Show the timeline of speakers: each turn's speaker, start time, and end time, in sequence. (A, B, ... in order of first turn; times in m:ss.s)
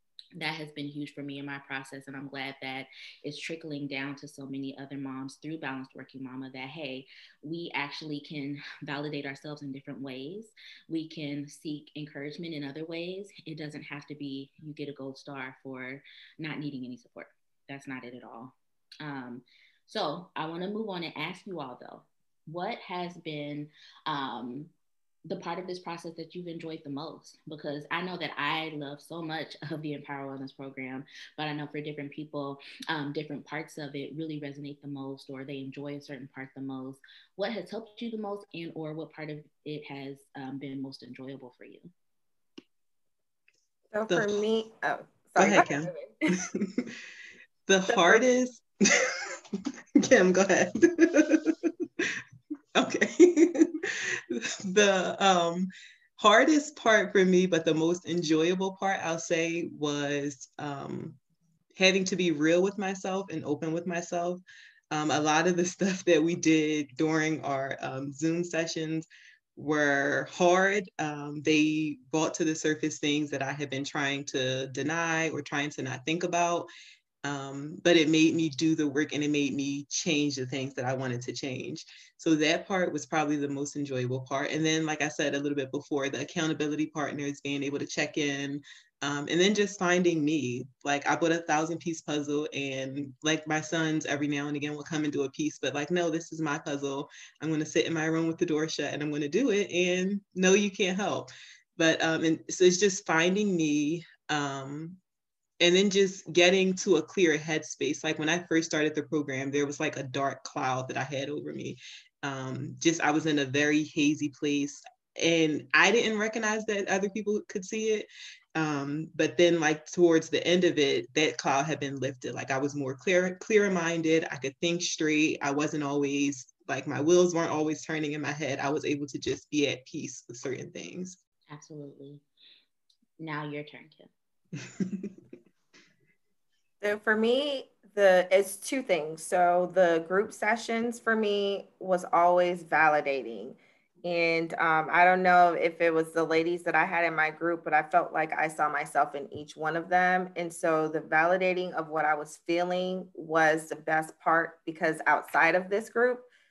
0:00.4-0:24.7 A
0:25.2-0:41.9 A
0:43.9-0:46.2 B
0:44.1-0:44.4 C
0:45.4-0:46.9 C
0:47.7-0:49.2 C
0:47.9-0:48.2 B
0:50.0-0:51.7 C
0:52.8-0:53.7 C
0:54.3-1:01.2 C
1:01.8-1:16.7 C
1:17.2-1:45.0 C
1:45.6-2:11.2 C
2:11.5-2:12.2 A
2:13.2-2:14.1 A
2:16.8-2:36.2 B